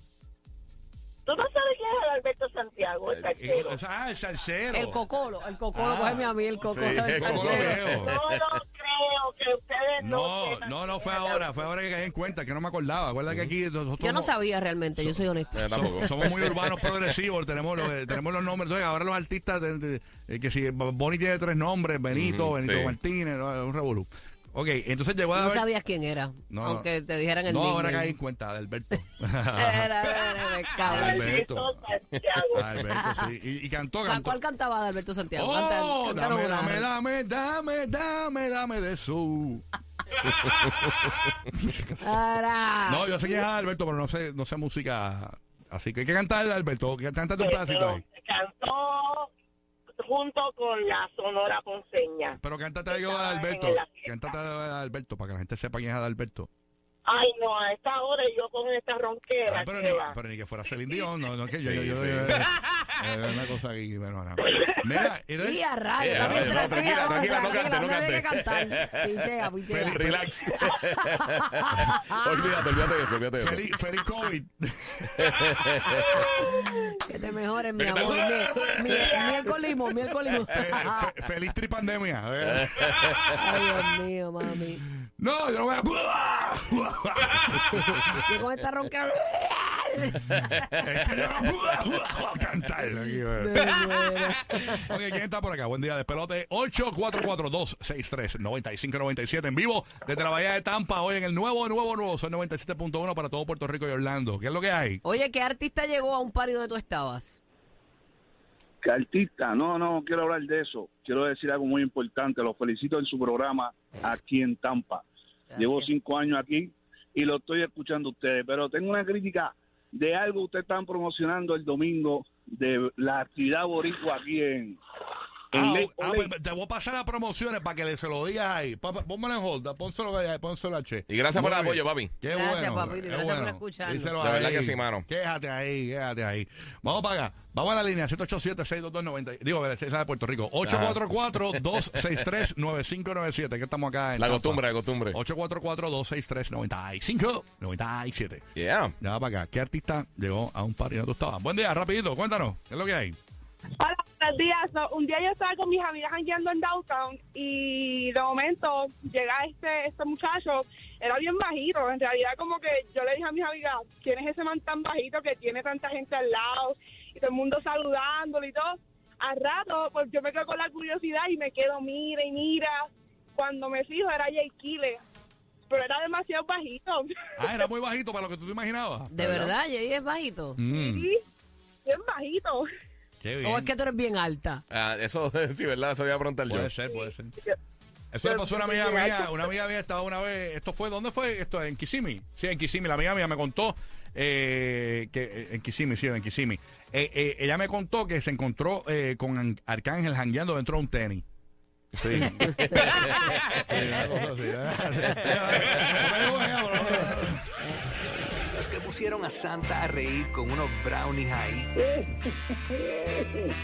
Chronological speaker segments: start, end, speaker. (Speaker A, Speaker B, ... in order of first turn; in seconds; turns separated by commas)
Speaker A: 1.3-3.8, Speaker B: 3.2-5.0, Speaker C: 4.7-8.0, Speaker B: 5.8-8.1, Speaker D: 6.7-8.4, Speaker A: 8.0-11.7, Speaker B: 10.0-14.3, Speaker C: 14.0-16.3, Speaker B: 15.0-25.7, Speaker D: 15.5-17.0, Speaker D: 22.1-23.0, Speaker C: 25.3-28.2, Speaker B: 26.5-26.9, Speaker B: 27.5-31.8, Speaker C: 29.6-31.3, Speaker A: 30.9-32.8, Speaker D: 32.2-32.5, Speaker B: 32.5-34.4, Speaker C: 32.9-33.3, Speaker C: 34.0-36.9, Speaker B: 35.4-39.6, Speaker B: 40.5-40.9, Speaker B: 41.5-42.2, Speaker C: 42.0-43.2, Speaker B: 42.9-48.0, Speaker A: 47.4-49.3, Speaker A: 50.0-54.4, Speaker B: 52.4-56.5, Speaker A: 57.1-60.2, Speaker B: 59.5-67.4, Speaker D: 61.6-62.5, Speaker C: 65.4-70.2, Speaker D: 66.0-69.3, Speaker B: 69.7-70.6, Speaker D: 69.9-73.7, Speaker C: 71.0-72.6, Speaker B: 73.4-75.9, Speaker D: 75.2-76.3, Speaker C: 77.0-81.1, Speaker D: 77.8-79.7, Speaker A: 78.9-79.4, Speaker B: 80.4-83.6, Speaker D: 82.5-83.2, Speaker C: 83.4-84.8, Speaker B: 85.2-88.2, Speaker C: 87.7-90.7, Speaker B: 90.7-105.0, Speaker C: 93.3-95.0, Speaker C: 105.0-107.4, Speaker E: 108.8-115.0, Speaker C: 115.5-115.9, Speaker E: 115.6-124.8, Speaker E: 125.5-126.3, Speaker B: 125.5-148.5, Speaker D: 131.1-132.1, Speaker C: 132.3-134.2, Speaker D: 134.2-135.1, Speaker D: 140.7-141.8, Speaker D: 144.2-145.2, Speaker D: 148.6-148.9, Speaker B: 149.0-153.2, Speaker F: 153.8-175.0, Speaker F: 175.7-177.7, Speaker B: 177.4-179.5, Speaker C: 179.1-180.6, Speaker B: 180.6-181.1, Speaker F: 180.7-181.2, Speaker F: 181.8-182.7, Speaker B: 183.2-183.7, Speaker C: 183.4-184.6, Speaker D: 184.7-186.7, Speaker B: 186.5-187.3, Speaker F: 186.9-187.6, Speaker B: 188.1-201.2, Speaker F: 188.2-189.5, Speaker B: 201.9-202.8, Speaker C: 202.4-203.1, Speaker D: 202.6-203.6, Speaker B: 203.6-207.4, Speaker G: 208.6-211.7